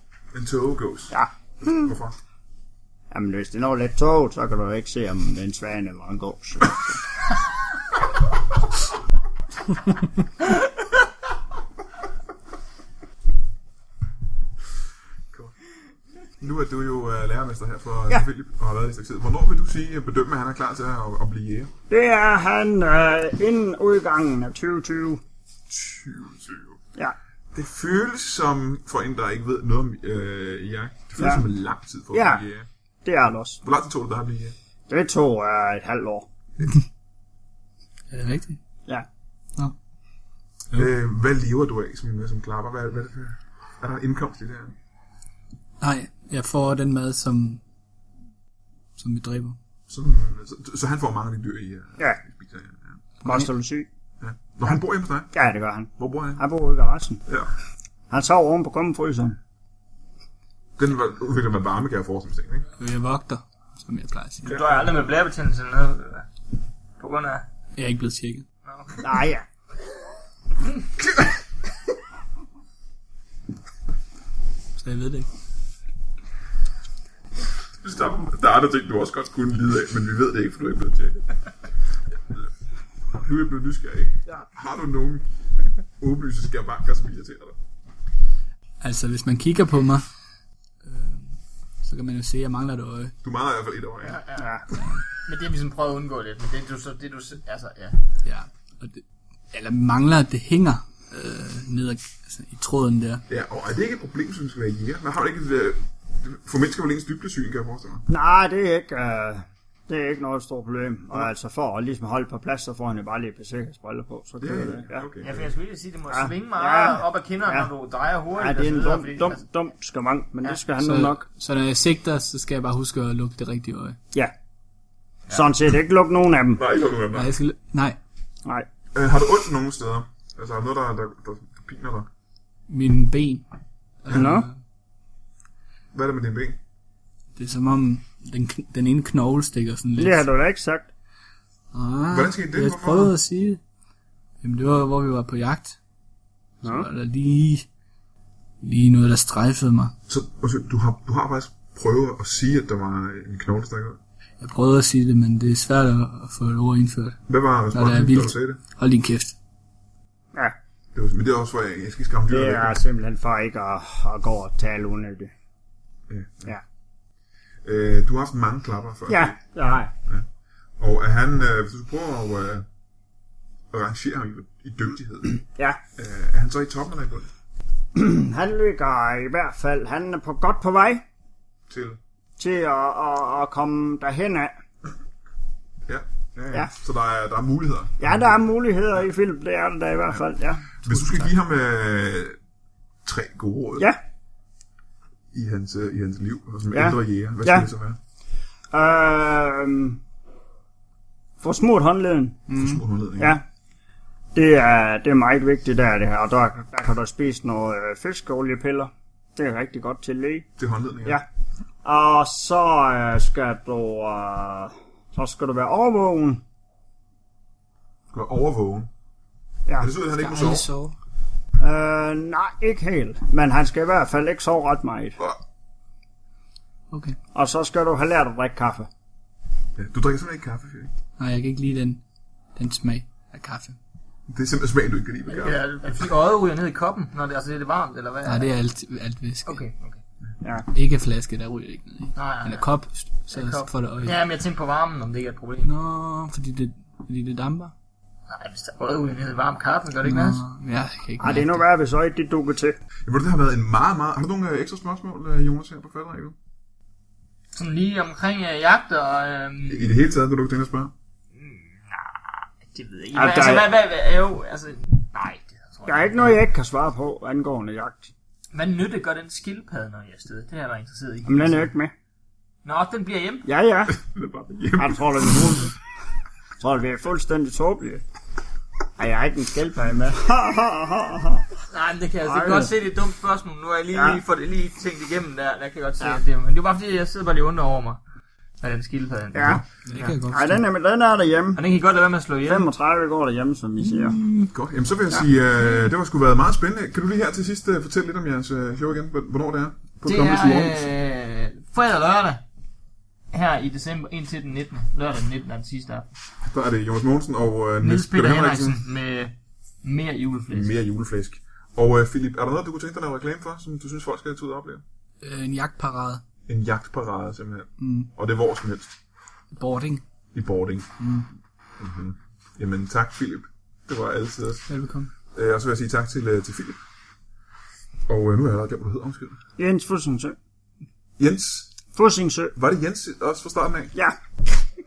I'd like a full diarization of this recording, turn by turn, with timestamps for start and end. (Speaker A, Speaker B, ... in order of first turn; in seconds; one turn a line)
Speaker A: 0.3-2.1
Speaker B: 1.1-1.9
Speaker B: 3.1-7.0
Speaker A: 16.4-21.7
Speaker B: 21.9-25.2
Speaker A: 25.7-26.8
Speaker A: 27.5-32.7
Speaker B: 31.2-31.4
Speaker B: 32.1-32.4
Speaker B: 33.0-33.6
Speaker A: 33.6-34.5
Speaker B: 34.9-36.3
Speaker C: 38.1-38.6
Speaker A: 40.7-44.7
Speaker C: 45.8-47.6
Speaker C: 49.0-49.6
Speaker A: 49.9-53.0
Speaker C: 53.2-53.5
Speaker B: 53.2-53.9
Speaker A: 54.2-55.3
Speaker B: 55.3-57.2
Speaker A: 56.0-56.4
Speaker B: 58.1-59.4
Speaker A: 60.8-62.6
Speaker C: 62.8-64.7
Speaker A: 64.4-64.8
Speaker D: 64.4-66.2
Speaker D: 67.0-67.4
Speaker C: 67.8-68.4
Speaker D: 68.6-69.2
Speaker B: 69.0-69.4
Speaker C: 74.8-75.3
Speaker A: 77.8-81.2
Speaker A: 83.1-85.2
Speaker A: 86.0-87.6
Speaker C: 88.8-90.0
Speaker C: 90.8-93.1
Speaker A: 93.2-94.2
Speaker D: 94.0-94.6
Speaker B: 94.4-94.7
Speaker D: 95.1-98.0
Speaker C: 98.2-103.2
Speaker A: 103.3-108.0
Speaker B: 108.1-115.1
Speaker A: 114.4-115.5
Speaker D: 115.2-119.4
Speaker B: 116.1-117.7
Speaker B: 118.3-121.2
Speaker C: 120.8-124.0
Speaker B: 125.3-126.6
Speaker A: 126.5-127.3
Speaker C: 127.1-128.0
Speaker A: 128.9-132.1
Speaker C: 132.7-133.4
Speaker C: 134.0-134.5
Speaker B: 134.1-134.5
Speaker A: 135.9-136.6
Speaker C: 137.3-140.2
Speaker B: 140.0-140.9
Speaker C: 141.7-143.6
Speaker A: 142.1-143.1
Speaker C: 144.4-145.8
Speaker C: 146.6-147.7
Speaker C: 148.6-149.9
Speaker A: 150.1-154.0
Speaker C: 154.4-157.2
Speaker A: 157.3-158.6
Speaker C: 157.7-159.3
Speaker A: 160.9-162.8
Speaker B: 162.3-165.3
Speaker A: 166.1-166.5
Speaker A: 167.6-169.4
Speaker B: 169.1-169.9
Speaker A: 170.8-172.7
Speaker A: 173.7-175.4
Speaker A: 175.9-177.3
Speaker B: 177.9-181.0
Speaker A: 181.7-182.0
Speaker B: 182.4-184.5
Speaker A: 185.9-188.3
Speaker B: 188.0-191.3
Speaker A: 190.8-192.4
Speaker A: 193.0-193.9
Speaker A: 195.3-198.0
Speaker B: 196.7-197.7
Speaker B: 198.7-200.0
Speaker B: 201.4-202.5
Speaker C: 202.5-202.8
Speaker A: 202.5-203.4
Speaker B: 203.2-203.4
Speaker B: 204.3-210.5
Speaker A: 210.6-211.2
Speaker B: 211.8-216.4
Speaker A: 218.1-218.9
Speaker A: 219.8-220.7
Speaker C: 220.2-220.9
Speaker B: 221.6-225.2
Speaker C: 226.9-227.2
Speaker B: 227.3-228.9
Speaker A: 229.8-230.9
Speaker C: 231.2-232.0
Speaker C: 232.5-233.8
Speaker A: 234.3-235.6
Speaker D: 235.3-238.5
Speaker C: 238.2-239.6
Speaker D: 239.4-240.0
Speaker C: 240.7-244.2
Speaker D: 242.2-242.7
Speaker D: 243.3-245.7
Speaker C: 245.6-247.7
Speaker D: 248.3-250.4
Speaker C: 250.0-251.6
Speaker B: 251.2-252.8
Speaker A: 253.1-256.4
Speaker D: 257.5-259.9
Speaker A: 259.7-260.9
Speaker D: 261.3-266.4
Speaker B: 263.1-263.7
Speaker B: 265.9-268.1
Speaker D: 268.5-271.7
Speaker B: 271.2-271.9
Speaker D: 272.6-273.5
Speaker B: 273.4-273.9
Speaker A: 273.9-275.7
Speaker B: 274.8-275.7
Speaker B: 276.6-278.0
Speaker B: 279.0-281.5
Speaker D: 281.7-288.0
Speaker B: 282.2-282.7
Speaker B: 283.9-284.2
Speaker D: 288.6-290.2
Speaker B: 289.3-289.6
Speaker C: 289.9-290.6
Speaker B: 290.3-291.6
Speaker D: 291.6-292.6
Speaker B: 292.4-294.2
Speaker C: 293.8-294.5
Speaker A: 294.5-300.8
Speaker D: 300.0-302.4
Speaker D: 303.3-306.1
Speaker A: 306.4-308.8
Speaker D: 307.8-310.7
Speaker A: 310.5-314.8
Speaker C: 315.2-316.2
Speaker A: 316.5-318.9
Speaker C: 317.8-318.1
Speaker C: 319.5-320.0
Speaker A: 320.3-321.0
Speaker C: 321.0-321.2
Speaker A: 321.8-324.7
Speaker C: 324.7-325.1
Speaker A: 325.3-326.8
Speaker A: 328.1-329.4
Speaker B: 329.6-330.4
Speaker A: 331.2-331.7
Speaker B: 331.9-332.5
Speaker A: 332.6-333.9